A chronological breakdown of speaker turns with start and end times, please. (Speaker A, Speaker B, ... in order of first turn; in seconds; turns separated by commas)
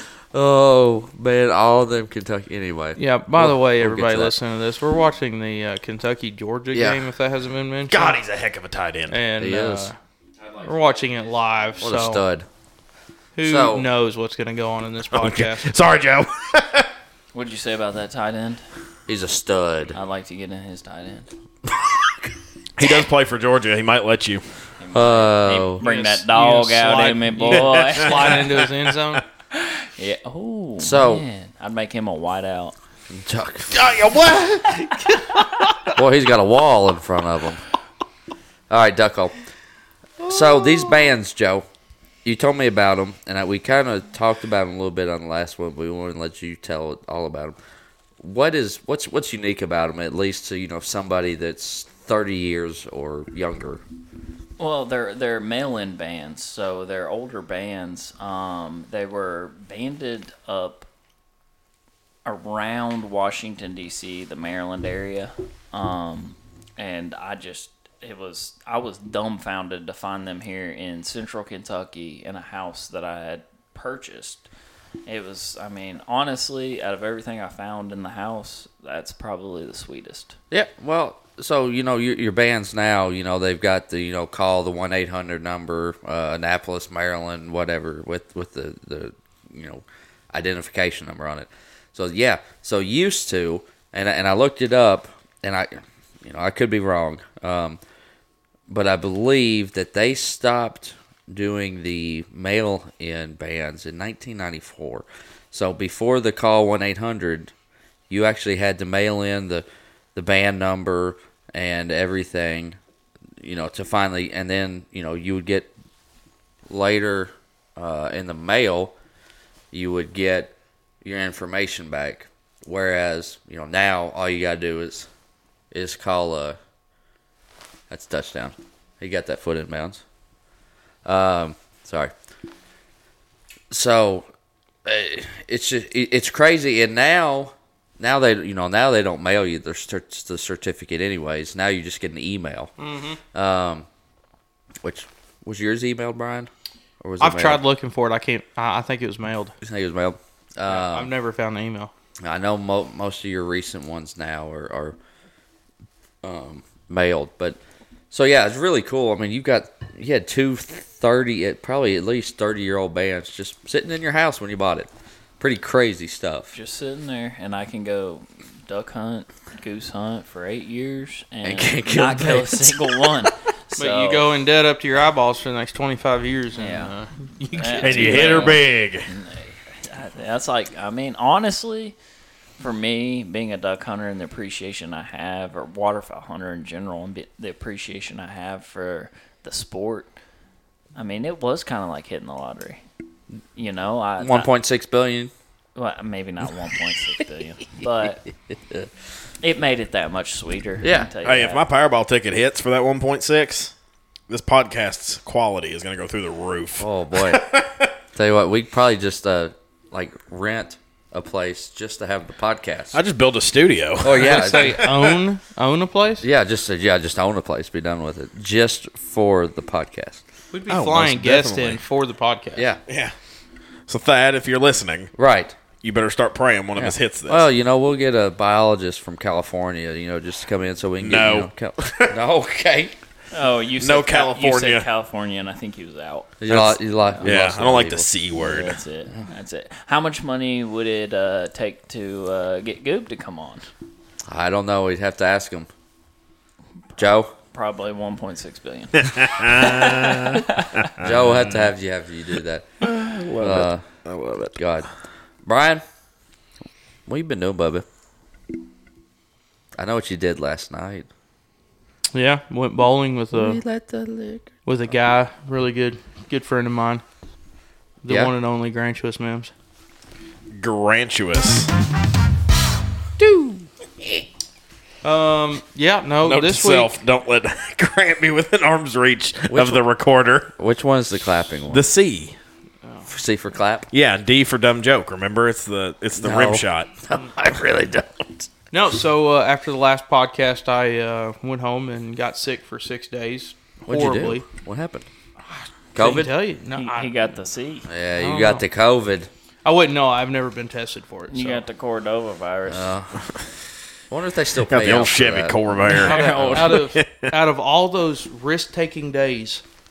Speaker A: 0.3-4.3, Speaker B: 3.0-8.2, Speaker A: 6.7-7.0, Speaker C: 7.9-9.2, Speaker B: 9.1-9.9, Speaker A: 9.4-9.9, Speaker B: 10.6-12.2, Speaker A: 11.8-12.4, Speaker B: 13.3-15.7, Speaker A: 13.4-13.9, Speaker C: 15.1-16.9, Speaker D: 17.3-18.6, Speaker A: 19.1-19.9, Speaker D: 19.9-21.3, Speaker A: 21.8-22.3, Speaker C: 22.8-24.4, Speaker D: 24.8-28.4, Speaker A: 24.9-25.8, Speaker B: 25.8-29.2, Speaker C: 27.5-28.7, Speaker D: 29.5-32.7, Speaker A: 30.8-31.2, Speaker A: 33.1-33.9, Speaker C: 33.7-35.1, Speaker A: 35.9-37.6, Speaker A: 38.7-39.4, Speaker B: 40.2-40.9, Speaker A: 40.2-41.7, Speaker A: 42.2-47.5, Speaker A: 48.2-53.8, Speaker D: 54.6-60.9, Speaker D: 62.2-74.5, Speaker D: 75.0-80.4, Speaker A: 80.5-97.8, Speaker A: 98.7-107.5, Speaker A: 108.1-112.8, Speaker A: 113.4-115.7, Speaker A: 116.7-118.9, Speaker A: 119.7-125.1, Speaker A: 125.7-126.6, Speaker A: 127.9-130.0, Speaker A: 131.0-132.1, Speaker A: 133.7-134.3, Speaker A: 134.8-142.7, Speaker B: 142.8-143.2, Speaker A: 143.3-143.9, Speaker A: 144.8-147.6, Speaker B: 147.2-149.5, Speaker A: 149.6-151.1, Speaker B: 150.7-151.9, Speaker A: 152.2-155.0, Speaker A: 156.2-157.6, Speaker A: 158.1-164.9, Speaker A: 165.4-166.5, Speaker D: 166.5-174.3, Speaker A: 171.4-173.3, Speaker B: 173.7-178.6, Speaker D: 176.6-176.9, Speaker D: 177.5-181.9, Speaker C: 177.8-179.1, Speaker D: 182.6-190.2, Speaker D: 190.9-192.8, Speaker D: 193.5-194.5, Speaker A: 194.2-195.3, Speaker D: 195.8-198.2, Speaker A: 198.5-198.9, Speaker D: 199.4-201.6, Speaker A: 200.8-201.1, Speaker C: 201.2-203.7, Speaker C: 204.3-207.9, Speaker A: 206.8-207.5, Speaker A: 208.1-213.0, Speaker C: 212.9-215.2, Speaker A: 214.0-214.9, Speaker B: 214.2-216.2, Speaker A: 216.2-221.8, Speaker B: 220.5-222.7, Speaker C: 220.7-221.0, Speaker A: 222.5-222.8, Speaker C: 222.9-223.1, Speaker C: 223.9-225.1, Speaker A: 225.2-225.6, Speaker C: 225.8-227.5, Speaker A: 226.8-232.9, Speaker C: 231.0-232.2, Speaker D: 233.3-236.4, Speaker C: 233.8-234.8, Speaker A: 236.4-238.1, Speaker C: 236.5-238.8, Speaker D: 237.0-237.2, Speaker D: 238.4-243.7, Speaker A: 244.3-245.7, Speaker A: 247.0-247.3, Speaker D: 247.5-250.8, Speaker C: 249.0-251.7, Speaker A: 251.0-252.7, Speaker C: 252.8-254.6, Speaker A: 253.4-253.8, Speaker A: 254.6-254.9, Speaker A: 255.4-255.8, Speaker A: 257.1-257.8, Speaker A: 259.8-261.1, Speaker B: 262.1-263.6, Speaker A: 263.3-264.5, Speaker B: 264.6-267.0, Speaker B: 268.0-269.5, Speaker A: 268.1-268.3, Speaker C: 270.5-271.7, Speaker A: 273.2-273.5, Speaker B: 275.0-276.9, Speaker C: 276.2-280.5, Speaker A: 279.5-279.8, Speaker A: 280.5-281.8, Speaker C: 281.7-282.4, Speaker B: 282.8-283.1, Speaker A: 283.1-283.9, Speaker C: 283.9-286.9, Speaker A: 286.2-288.5, Speaker B: 288.7-294.4, Speaker A: 293.9-295.1, Speaker A: 295.9-296.3, Speaker B: 295.9-297.1, Speaker D: 296.7-297.9, Speaker A: 297.9-299.3, Speaker B: 298.2-298.6, Speaker B: 299.6-301.6, Speaker D: 301.3-302.9, Speaker A: 302.6-303.2, Speaker A: 304.1-305.6, Speaker C: 304.6-307.3, Speaker D: 305.8-306.9, Speaker B: 305.9-309.6